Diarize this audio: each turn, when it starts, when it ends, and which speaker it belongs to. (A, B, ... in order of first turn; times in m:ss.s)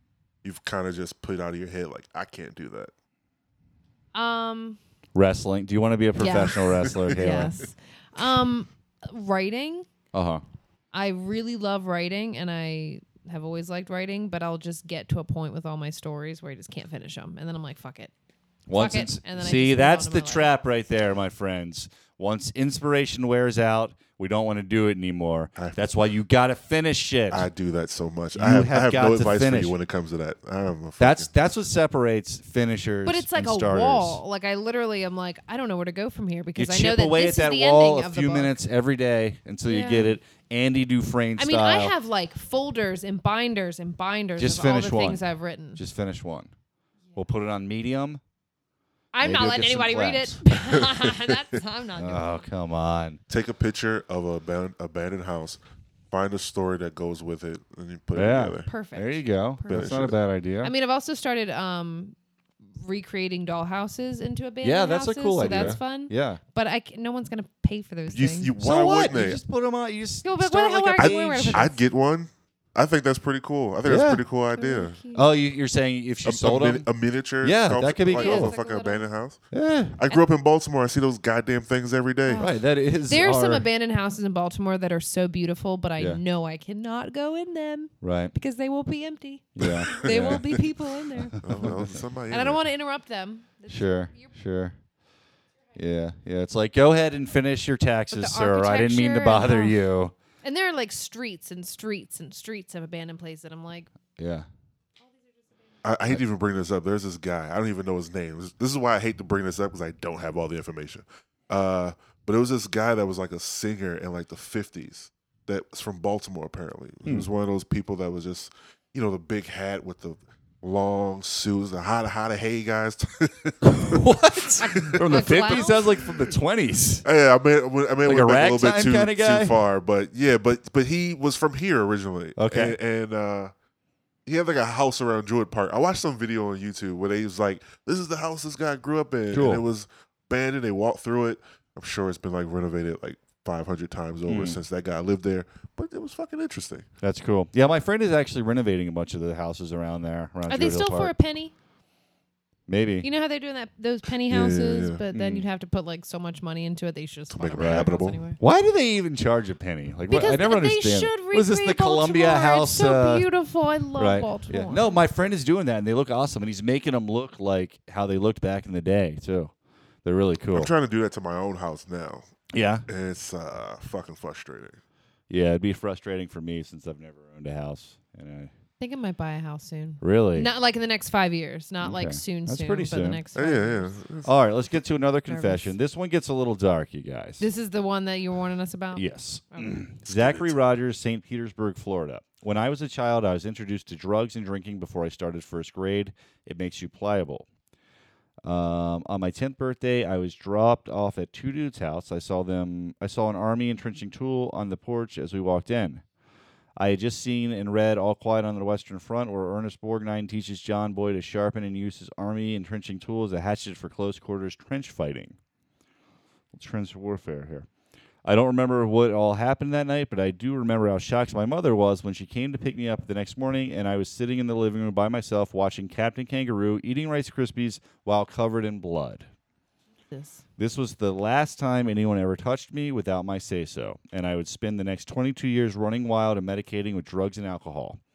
0:00.4-0:02.9 A
0:04.1-0:04.8 B
0:05.1-0:07.5 C
0:06.2-0:09.9 B
0:06.9-0:07.5 A
0:10.1-0:10.4 C
0:10.9-0:18.1 B
0:18.7-0:27.5 C
0:18.7-0:20.5 B
0:25.6-0:25.9 A
0:27.3-0:31.3 A
0:28.4-0:29.7 C
0:31.0-0:34.2 C
0:33.0-0:38.5 B
0:36.6-0:41.9 C
0:39.6-0:40.2 B
0:41.4-0:45.8 B
0:44.4-0:45.2 C
0:45.8-0:46.5 C
0:47.1-0:48.2 C
0:49.1-0:52.4 B
0:49.2-0:50.4 C
0:52.0-0:53.2 C
0:53.3-0:55.6 A
0:56.1-0:58.7 A
0:58.1-1:00.7 C
0:58.6-1:00.1 B
0:59.7-1:00.2 A
1:00.6-1:02.1 B
1:02.8-1:08.5 B
1:04.6-1:06.4 C
1:05.4-1:05.8 A
1:08.1-1:09.4 A
1:08.6-1:11.7 C
1:10.2-1:11.8 B
1:11.0-1:15.0 A
1:13.8-1:14.2 C
1:14.5-1:15.3 B
1:15.1-1:16.9 C
1:16.2-1:19.4 A
1:17.4-1:18.5 C
1:18.1-1:19.1 B
1:19.5-1:20.0 C
1:20.0-1:22.4 A
1:22.2-1:31.8 B
1:22.4-1:23.7 C
1:28.0-1:28.3 C
1:29.6-1:30.6 C
1:31.4-1:32.6 A
1:32.3-1:34.3 B
1:33.7-1:34.8 C
1:35.7-1:40.1 C
1:38.1-1:39.8 B
1:40.4-1:43.9 B
1:44.2-1:44.5 C
1:45.8-2:05.6 A
2:03.6-2:07.0 C
2:04.7-2:05.9 B
2:07.0-2:13.5 A
2:08.0-2:09.6 C
2:12.4-2:12.8 C
2:14.2-2:26.9 A
2:19.3-2:19.6 C
2:24.3-2:24.6 C
2:27.0-2:31.1 C
2:30.5-2:31.5 B
2:32.7-2:33.1 C
2:33.0-2:38.4 B
2:34.3-2:35.0 A
2:35.1-2:35.4 C
2:37.3-2:38.2 A
2:37.6-2:37.8 C
2:38.4-2:43.3 C
2:40.1-2:44.9 B
2:44.0-2:49.5 C
2:50.0-2:50.7 C
2:50.5-2:52.2 A
2:52.5-2:52.8 C
2:52.9-2:54.8 A
2:55.3-2:58.5 C
2:58.8-3:03.9 B
3:00.0-3:00.5 C
3:01.8-3:03.2 C
3:03.3-3:04.3 A
3:04.2-3:07.5 C
3:05.2-3:05.7 B
3:07.4-3:09.8 B
3:08.9-3:17.4 C
3:10.0-3:10.5 A
3:18.4-3:26.0 C
3:26.8-3:35.4 C
3:36.5-3:37.7 C
3:38.2-3:49.2 C
3:50.1-3:50.4 B
3:50.6-3:58.0 C